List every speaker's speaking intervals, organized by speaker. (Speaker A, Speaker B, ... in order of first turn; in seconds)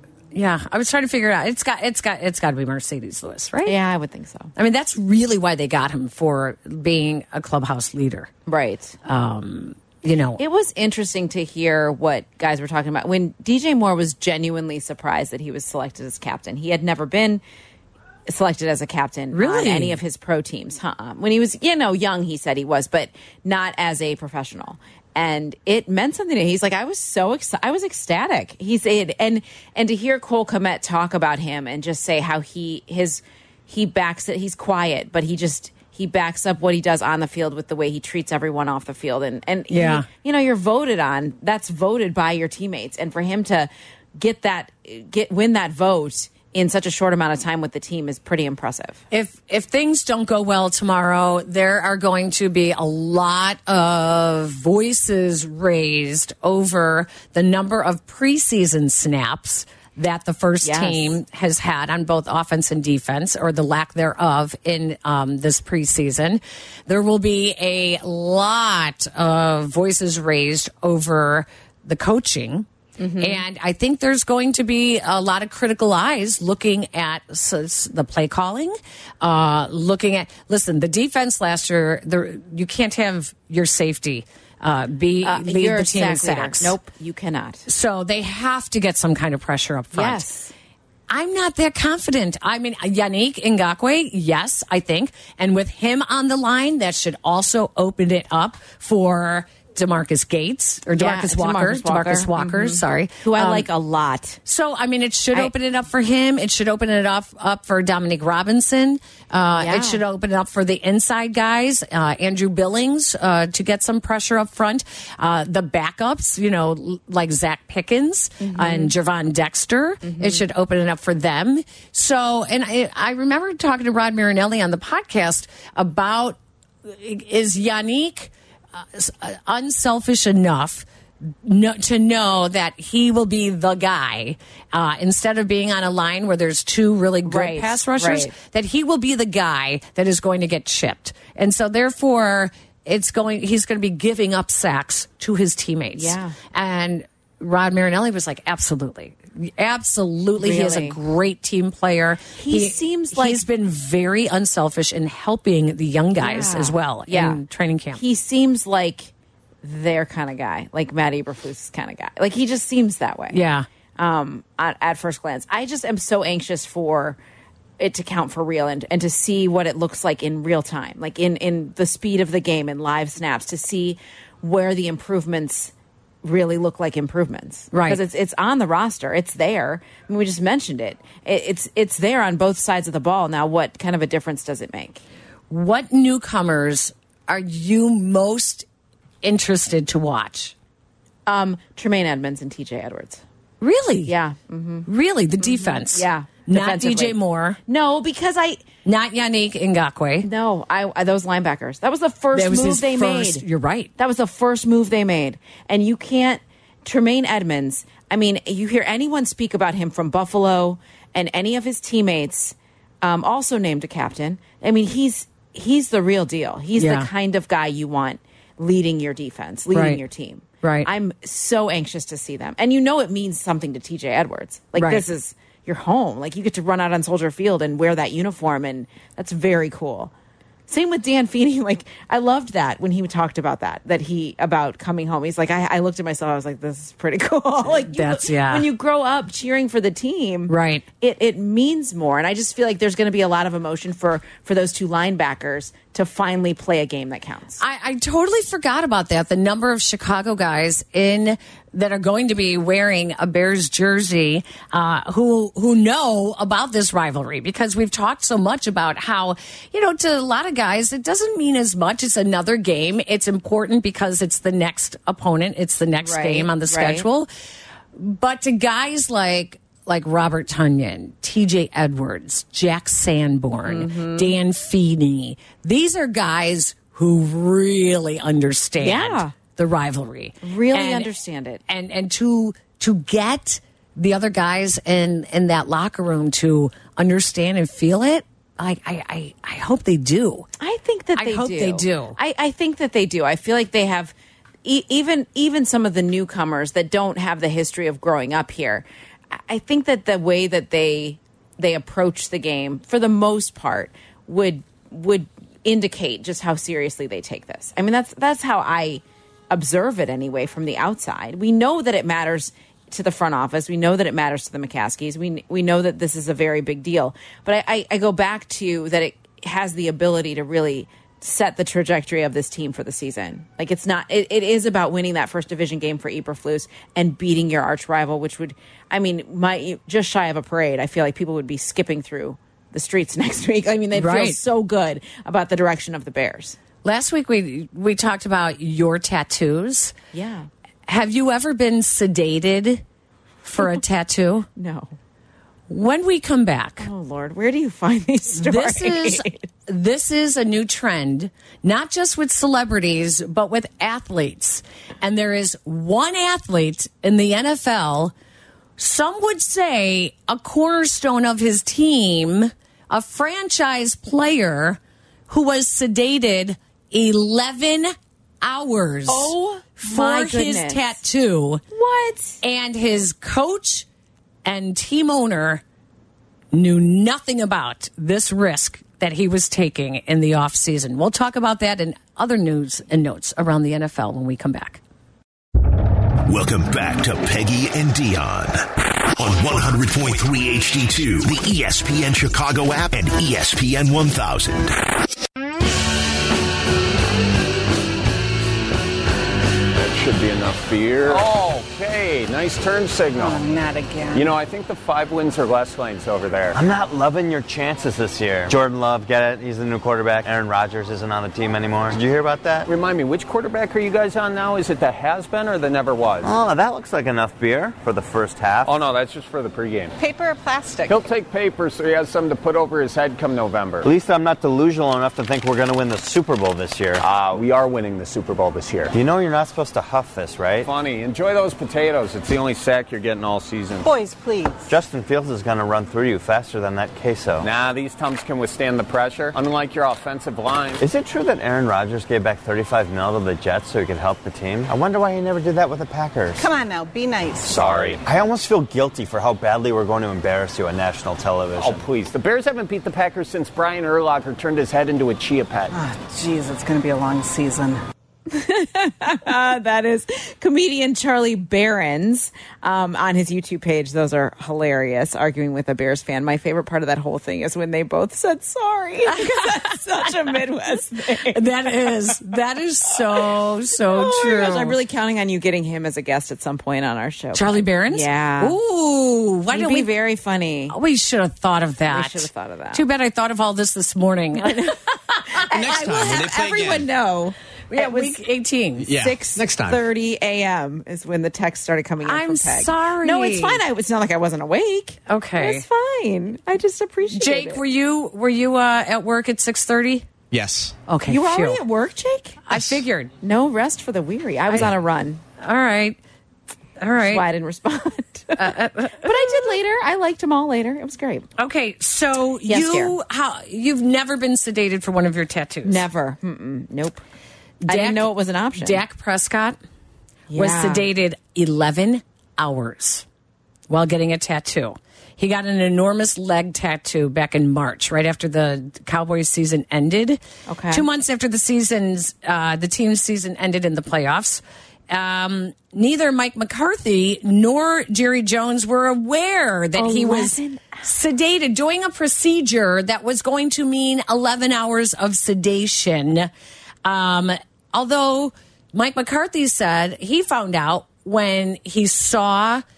Speaker A: 0.3-3.8, 4.6-8.3, 9.1-10.4, 19.3-20.0, 39.7-40.1, 49.1-72.7, 73.2-86.8, 87.7-90.3, 91.1-103.7, 104.5-158.0, 163.3-163.7, 177.7-178.0, 185.5-188.7, 189.2-190.5, 193.6-194.1, 194.9-197.6, 198.8-200.3, 202.3-203.9, 216.8-217.1, 219.7-220.0, 220.6-220.9, 224.8-225.0, 237.8-238.7, 240.5-240.8, 247.6-267.3, 268.0-281.1, 281.7-290.5, 291.2-292.2, 333.9-334.4, 336.8-340.0, 340.9-342.8, 343.4-344.5, 345.7-346.9, 348.4-358.1, 358.8-371.6, 372.4-373.9, 374.4-375.6, 376.5-384.8, 471.3-474.8, 477.4-479.9, 480.7-484.8, 487.7-488.9, 492.0-493.6, 495.1-495.6, 497.1-500.1, 500.9-501.6, 502.5-503.1, 505.4-506.0, 506.8-507.2, 508.4-509.6, 511.4-515.8, 517.6-519.6, 520.4-523.0, 523.7-530.2, 530.7-546.3, 546.8-552.6
Speaker B: 3.6-4.5, 8.5-9.0, 10.4-17.4, 18.3-49.0, 60.6-61.2, 73.0-73.4, 85.2-87.7, 89.9-90.5, 101.0-104.4, 109.6-110.0, 118.4-119.0, 120.0-120.4, 137.3-138.3, 145.9-146.4, 150.4-151.0, 152.4-153.4, 156.2-157.4, 157.9-159.1, 159.6-163.4, 164.0-167.2, 167.8-175.7, 176.2-185.0, 191.3-193.2, 194.1-194.9, 195.4-198.6, 200.2-203.4, 204.0-230.1, 230.7-247.6, 266.0-267.1, 273.7-274.3, 278.8-279.3, 280.4-281.6, 290.6-336.6, 340.1-340.5, 344.6-344.9, 346.8-349.4, 369.1-371.0, 371.7-372.4, 458.3-471.4, 473.9-478.6, 479.5-480.8, 481.9-482.8, 484.4-484.8, 485.4-488.2, 488.9-497.6, 501.1-502.5, 503.2-505.2, 507.1-508.5, 509.0-511.3, 512.5-513.0, 515.6-517.0, 517.7-518.8, 520.3-520.9, 530.5-530.9, 539.8-540.8
Speaker C: 386.3-394.9
Speaker D: 399.8-403.4, 404.1-406.6, 412.7-416.3, 418.6-419.9, 420.9-423.9, 427.0-428.9, 430.6-434.0, 437.4-440.8, 447.5-448.0, 451.6-455.7
Speaker E: 403.2-404.3, 420.0-421.0, 433.8-434.7, 446.4-447.6, 455.7-457.8
Speaker F: 406.5-412.7, 416.2-418.7, 423.8-427.4, 428.9-430.7, 434.7-437.5, 440.8-446.5, 447.5-451.8
Speaker G: 485.5-486.9, 488.8-489.8, 500.3-500.8